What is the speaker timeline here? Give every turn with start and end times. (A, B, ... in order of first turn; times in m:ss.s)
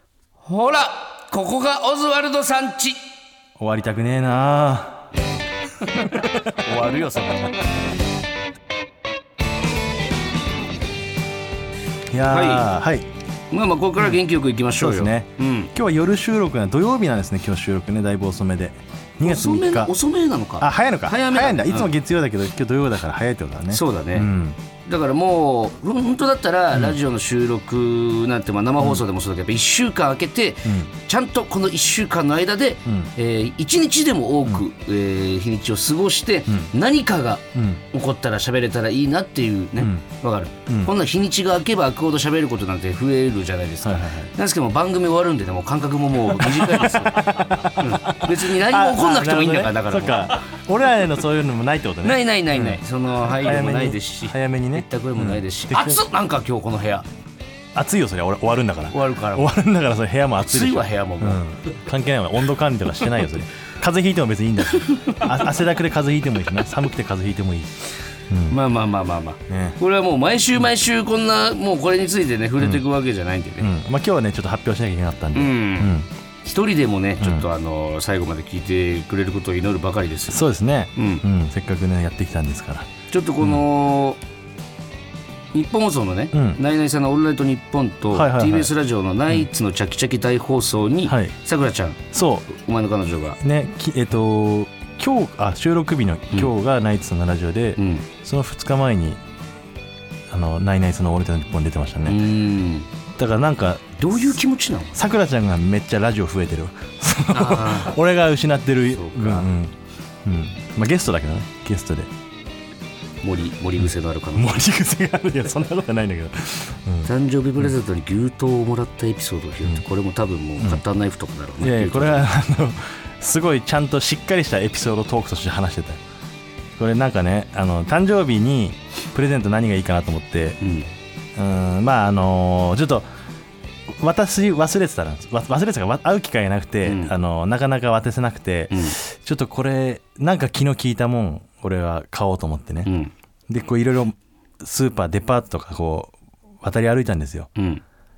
0:00.4-0:03.0 A
0:03.6-0:05.1 B
0:06.0-0:07.6 A
0:12.1-0:13.1 B
0:12.3-0:12.7 A
0:13.5-0:15.7 A
0:14.8-0:19.9 B
0:19.2-0:21.9 A
0:20.6-0:24.6 B
0:23.7-0:24.3 A
0:24.8-0:50.4 A
0:26.7-0:27.0 B
0:37.5-0:37.8 B
0:39.8-0:40.0 B
0:40.7-0:40.9 B
0:43.8-0:44.3 B
0:46.4-0:56.0 B
0:52.0-0:57.1 A
0:57.7-1:08.6 B
0:58.9-0:59.5 A
1:00.4-1:01.4 A
1:04.9-1:05.3 A
1:08.5-1:13.7 A
1:09.5-1:09.8 B
1:13.6-1:16.1 B
1:15.3-1:20.4 A
1:17.2-1:17.4 B
1:20.3-1:22.9 B
1:21.0-1:21.2 A
1:23.1-1:24.2 A
1:25.5-1:33.4 A
1:26.3-1:26.6 B
1:28.1-1:28.7 B
1:31.0-1:31.3 B
1:32.1-1:32.5 B
1:33.4-1:39.2 B
1:37.8-1:38.1 A
1:40.3-1:42.2 B
1:42.0-1:42.9 A
1:43.1-1:44.4 B
1:44.0-1:45.0 A
1:44.9-1:52.1 B
1:47.3-1:48.0 A
1:48.9-1:49.5 A
1:53.2-1:54.6 A
1:53.8-1:57.1 B
1:57.0-2:02.3 A
2:01.6-2:06.0 B
2:06.8-2:10.6 B
2:10.6-2:10.9 A
2:11.4-2:13.0 B
2:13.9-2:22.9 B
2:16.8-2:17.1 A
2:18.7-2:19.0 A
2:22.8-2:23.1 A
2:23.5-2:27.5 B
2:27.6-2:27.8 A